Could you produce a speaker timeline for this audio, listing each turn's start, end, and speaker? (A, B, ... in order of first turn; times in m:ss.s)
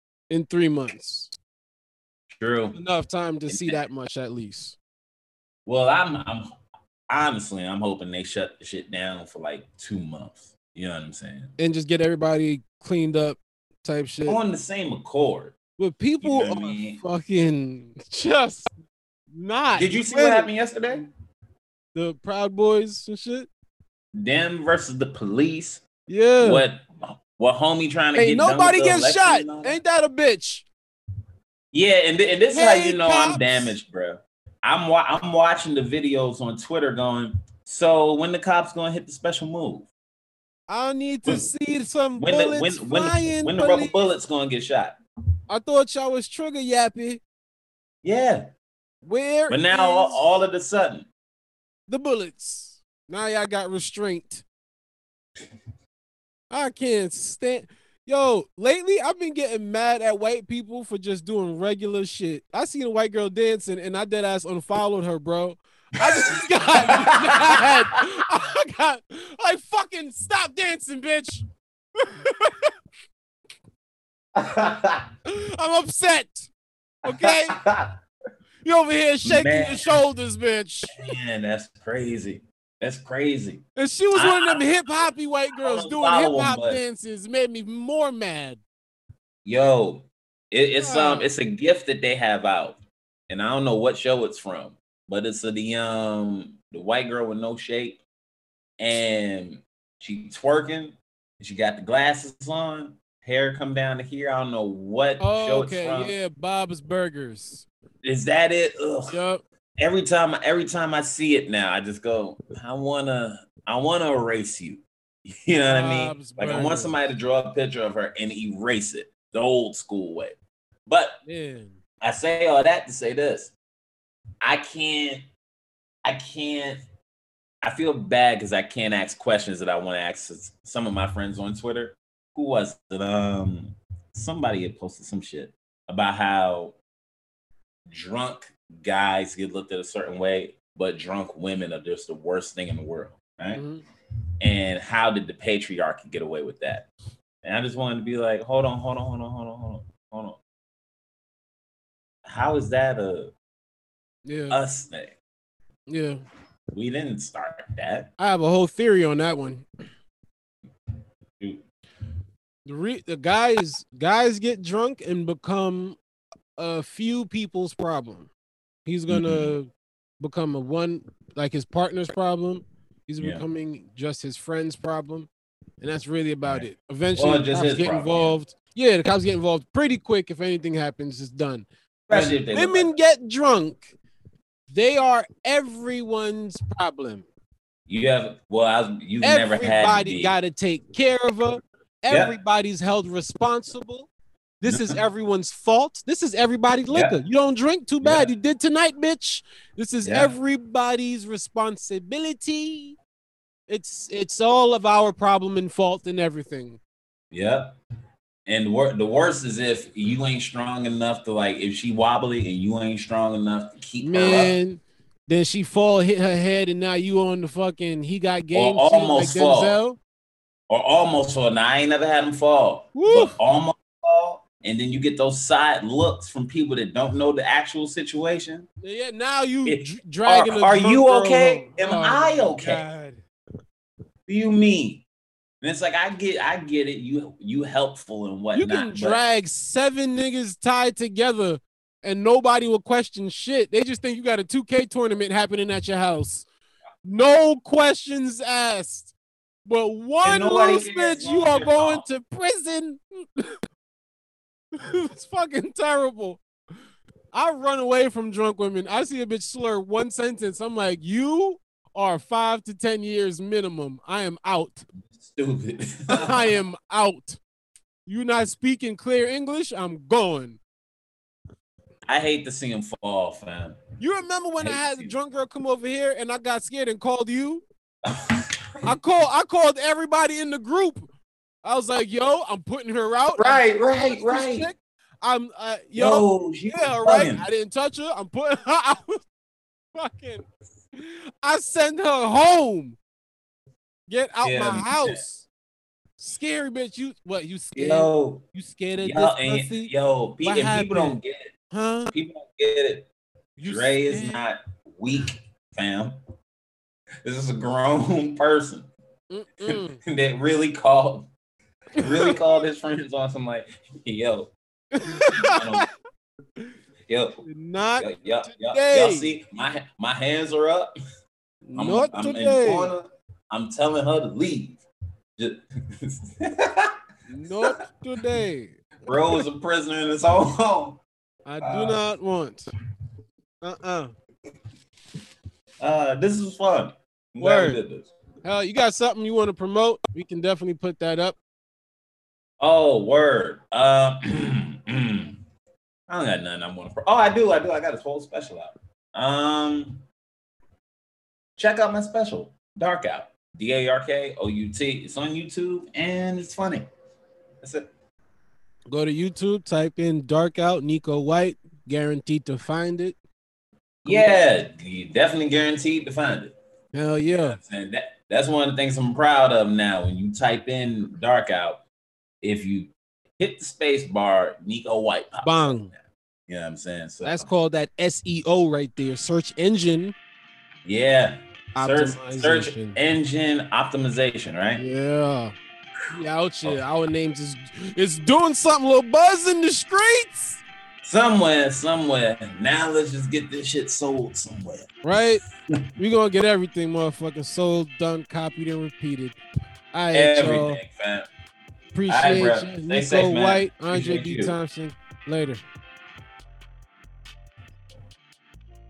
0:00.3-0:01.3 A
0:02.4-0:02.8 B
0:02.7-0:04.8 A
0:03.5-0:03.8 B
0:05.7-0:06.5 B
0:07.1-0:11.5 B
0:11.6-0:14.4 A
0:14.3-0:15.6 B
0:15.8-0:18.7 A
0:16.2-0:17.0 B
0:19.3-0:21.0 A
0:19.8-0:21.0 B
0:22.0-0:23.5 A
0:24.2-0:25.8 B
0:26.1-0:26.6 A
0:26.4-0:29.8 B
0:28.2-0:30.7 A
0:31.7-0:39.9 B
0:32.5-0:33.7 A
0:40.7-0:44.0 A
0:42.2-0:45.0 B
0:45.5-0:47.2 A
0:48.0-0:48.5 B
0:49.0-0:50.2 A
0:49.5-0:51.1 B
0:51.9-0:54.4 A
0:56.5-1:11.5 A
1:06.2-1:07.8 B
1:12.0-1:12.7 A
1:14.4-1:15.1 B
1:15.3-1:16.5 A
1:17.0-1:17.6 A
1:17.1-1:18.0 B
1:18.6-1:21.2 A
1:19.2-1:20.0 B
1:20.9-1:23.6 B
1:23.8-1:28.6 A
1:24.1-1:24.8 B
1:25.6-1:26.8 B
1:29.4-1:38.0 B
1:30.8-1:31.3 A
1:38.8-1:46.1 B
1:45.2-1:47.7 A
1:48.0-1:49.2 B
1:49.1-1:49.4 A
1:49.8-2:01.2 B
1:55.6-1:56.9 A
2:01.2-2:01.8 A
2:02.0-2:03.5 B
2:04.4-2:05.2 B
2:06.0-2:06.8 B
2:07.6-2:16.8 B
2:17.9-2:23.6 B
2:23.5-2:23.8 A
2:24.4-2:26.9 B
2:27.4-2:30.4 B
2:32.2-2:33.3 B
2:34.2-2:34.6 A
2:34.5-2:35.2 B
2:35.9-2:36.2 A
2:36.7-2:38.1 B
2:38.2-2:39.6 A
2:42.7-2:46.0 A
2:46.6-2:48.3 A
2:48.8-2:55.3 A
2:49.1-2:49.5 B
2:55.8-3:03.9 A
2:56.4-2:58.4 B
3:02.1-3:02.9 B
3:04.7-3:07.3 A
3:07.9-3:10.4 B
3:09.2-3:14.1 A
3:12.1-3:12.4 B
3:14.6-3:23.0 A
3:14.6-3:15.0 B
3:16.9-3:17.2 B
3:18.0-3:18.3 B
3:20.0-3:20.3 B
3:23.7-3:26.8 A
3:27.3-3:27.8 B
3:28.5-3:34.6 B
3:34.0-3:40.0 A
3:38.5-3:39.8 B
3:40.7-3:48.7 B
3:43.0-3:43.4 A
3:48.8-3:53.2 A
3:49.7-3:52.8 B
3:54.3-3:55.0 B
3:55.6-3:59.2 B
3:58.5-4:06.5 A
4:07.0-4:09.1 A
4:09.6-4:13.6 A
4:10.2-4:12.0 B
4:14.8-4:16.4 A
4:17.3-4:24.8 A
4:25.2-4:26.5 B
4:26.1-4:27.4 A
4:28.1-4:30.6 A
4:32.1-4:33.8 B
4:34.0-4:37.6 A
4:34.6-4:35.1 B
4:38.0-4:38.9 B
4:38.8-4:41.1 A
4:41.6-4:49.2 A
4:43.4-4:44.7 B
4:46.0-4:47.4 B
4:50.0-4:53.0 A
4:54.1-4:55.5 A
4:54.4-4:55.2 B
4:56.2-4:59.9 A
4:57.8-4:58.4 B
4:59.0-5:01.5 B
5:00.4-5:01.2 A
5:01.7-5:02.1 A
5:02.1-5:03.1 B
5:03.6-5:04.4 A
5:03.6-5:06.2 B
5:07.2-5:08.9 B
5:09.3-5:10.0 A
5:09.6-5:11.3 B
5:12.0-5:12.4 A
5:12.0-5:14.5 B
5:14.9-5:15.8 A
5:15.0-5:15.9 B
5:17.1-5:17.4 B
5:17.4-5:19.3 A
5:18.0-5:20.9 B
5:21.7-5:22.9 A
5:21.8-5:24.8 B
5:25.4-5:27.0 B
5:27.3-5:29.4 A
5:29.1-5:31.0 B
5:31.5-5:32.7 A
5:31.6-5:32.0 B
5:33.6-5:34.1 A
5:35.8-5:38.1 B
5:37.4-5:37.8 A
5:38.4-5:41.4 A
5:42.6-5:45.4 B
5:46.1-5:50.0 B
5:51.6-5:56.9 B
5:57.6-5:57.9 B
5:58.9-6:03.2 A
6:04.1-6:04.3 A
6:04.1-6:06.6 B
6:06.9-6:07.6 A
6:07.3-6:11.8 B
6:12.4-6:16.0 B
6:15.4-6:15.9 A
6:16.5-6:17.5 B
6:17.2-6:20.1 A
6:20.8-6:24.8 B
6:21.8-6:23.0 A
6:24.8-6:25.6 A
6:26.1-6:30.6 A
6:31.0-6:35.0 B
6:35.0-6:35.4 A
6:36.0-6:39.4 A
6:39.9-6:40.8 A
6:40.1-6:41.3 B
6:41.9-6:45.6 A
6:42.1-6:44.6 B